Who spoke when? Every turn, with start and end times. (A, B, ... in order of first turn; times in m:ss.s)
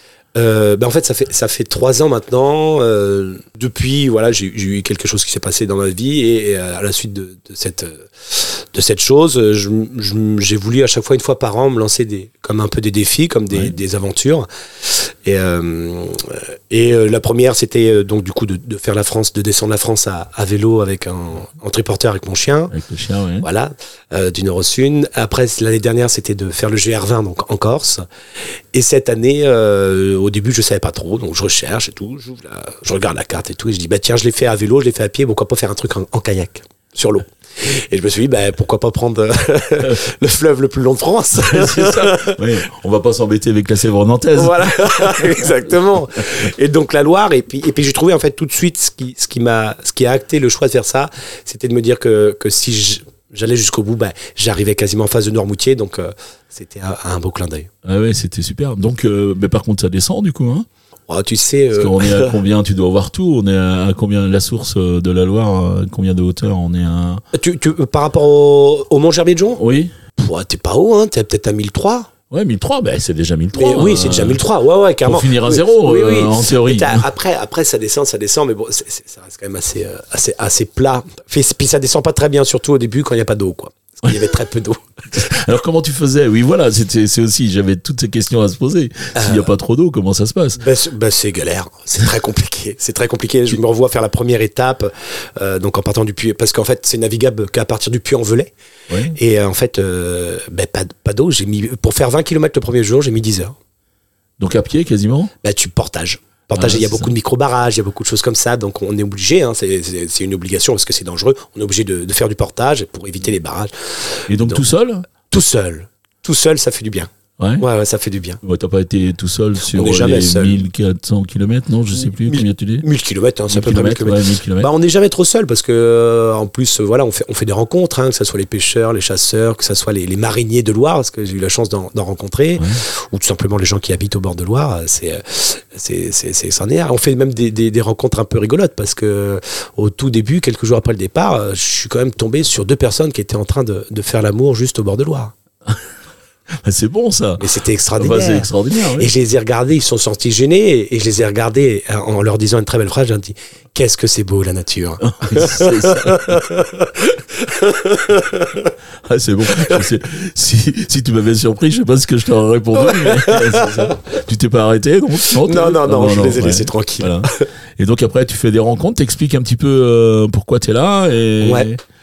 0:00.3-0:22.7 A
0:22.7-0:23.5 B
0:23.4-0:28.0 A
0:28.7-0:42.4 A
0:41.4-0:45.5 B
0:44.4-0:57.7 A
0:57.8-1:00.6 B
1:01.1-1:02.3 A
1:01.7-1:07.2 B
1:07.3-1:09.6 A
1:09.6-1:10.0 B
1:10.2-1:12.1 A
1:12.3-1:14.4 B
1:13.5-1:25.3 A
1:15.0-1:17.0 B
1:25.1-1:30.6 B
1:29.1-1:29.5 A
1:30.6-1:38.5 A
1:38.9-1:39.2 B
1:39.1-1:43.5 A
1:44.4-1:45.3 B
1:45.4-1:54.6 A
1:46.5-1:47.1 B
1:54.3-1:55.1 B
1:55.3-1:58.4 A
1:57.4-1:57.6 B
1:58.4-2:02.8 B
1:59.6-2:00.6 A
2:01.9-2:25.3 A
2:03.5-2:04.7 B
2:26.6-2:27.4 B
2:27.4-2:38.7 A
2:28.0-2:29.1 B
2:35.0-2:36.2 B
2:39.1-2:51.8 B
2:39.6-2:39.8 A
2:42.8-2:43.9 A
2:45.3-2:47.5 A
2:51.4-2:51.7 A